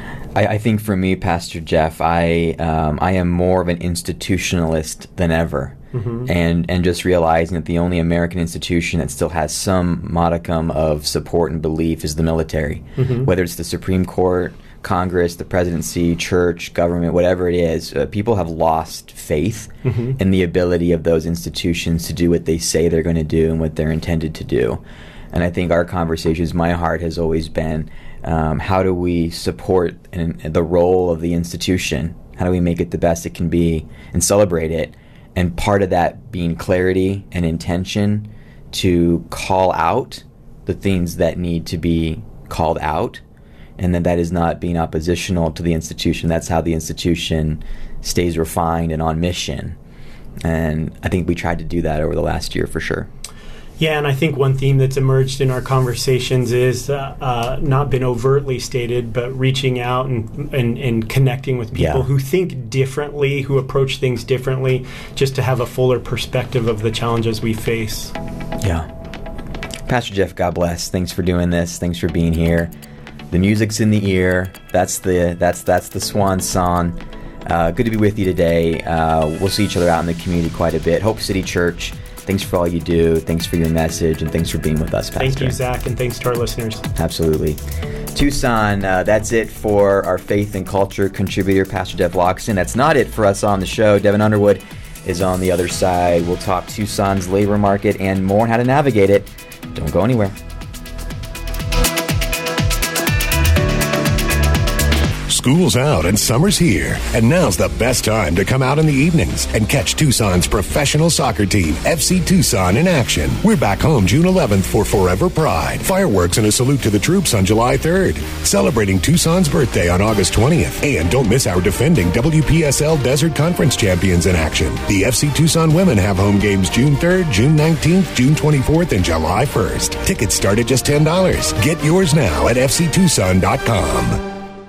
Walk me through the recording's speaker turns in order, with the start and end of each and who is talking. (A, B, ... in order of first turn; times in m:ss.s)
0:00.4-0:24.8 A
0:05.9-0:06.3 B
0:13.0-0:13.3 B
0:19.8-0:20.2 B
0:25.3-0:43.2 A
0:43.8-0:49.8 A
0:50.4-0:53.1 A
0:53.8-1:08.1 B
1:01.7-1:02.1 A
1:08.6-1:08.9 A
1:09.9-1:12.7 A
1:13.3-1:25.6 A
1:25.2-1:26.8 B
1:27.0-1:27.6 A
1:28.1-1:40.4 A
1:45.3-2:14.2 C